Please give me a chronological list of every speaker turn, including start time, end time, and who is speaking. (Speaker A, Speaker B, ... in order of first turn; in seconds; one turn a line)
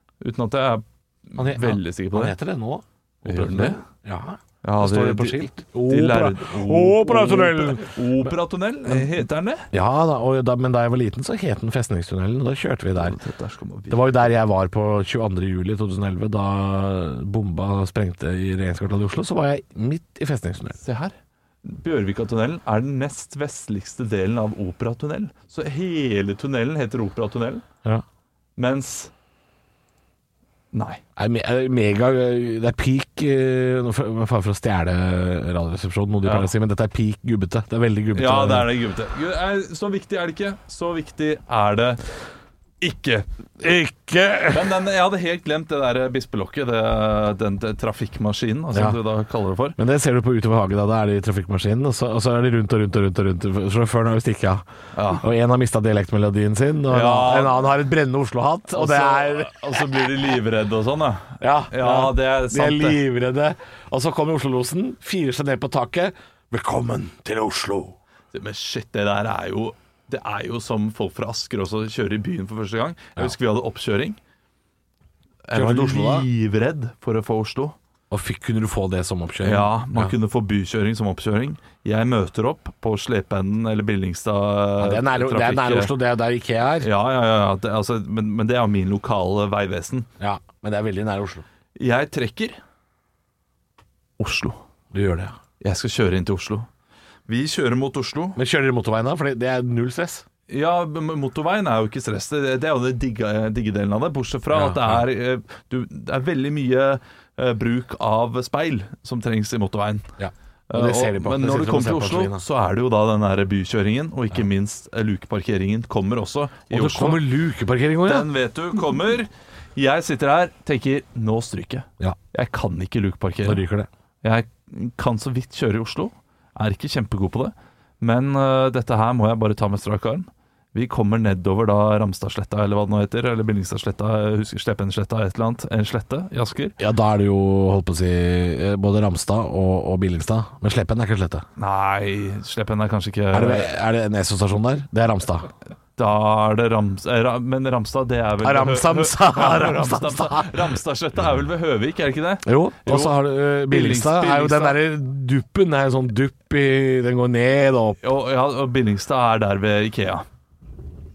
Speaker A: 0.2-2.4
Speaker B: 1.4-8.3
Speaker A: 3.2-3.8
Speaker A: 4.6-9.7
Speaker B: 9.7-13.2
Speaker A: 13.0-14.3
Speaker B: 13.9-20.8
Speaker A: 20.8-27.6
Speaker A: 28.6-29.1
Speaker A: 30.7-31.0
Speaker B: 31.2-38.7
Speaker A: 36.2-36.5
Speaker A: 38.1-42.0
Speaker A: 42.8-43.3
Speaker B: 43.6-44.8
Speaker A: 44.5-49.8
Speaker B: 48.7-49.0
Speaker B: 49.8-59.9
Speaker A: 55.0-55.2
Speaker A: 56.9-57.7
Speaker A: 58.7-63.0
Speaker B: 61.4-68.0
Speaker A: 68.3-74.2
Speaker A: 75.5-77.8
Speaker B: 75.5-76.3
Speaker B: 78.1-80.1
Speaker A: 79.4-86.0
Speaker B: 84.8-86.9
Speaker A: 86.8-90.1
Speaker B: 90.2-91.5
Speaker A: 91.8-92.6
Speaker A: 94.2-94.6
Speaker B: 94.9-95.3
Speaker A: 95.6-96.7
Speaker A: 97.3-98.4
Speaker B: 98.4-100.2
Speaker A: 100.5-110.1
Speaker B: 104.5-105.1
Speaker B: 110.2-112.4
Speaker A: 110.7-117.2
Speaker B: 116.7-118.3
Speaker A: 118.0-123.6
Speaker B: 123.4-123.9
Speaker A: 124.2-136.8
Speaker B: 136.8-141.4
Speaker A: 141.6-143.7
Speaker B: 143.3-145.5
Speaker A: 146.0-154.8
Speaker B: 148.4-150.6
Speaker B: 152.4-158.0
Speaker A: 158.0-160.2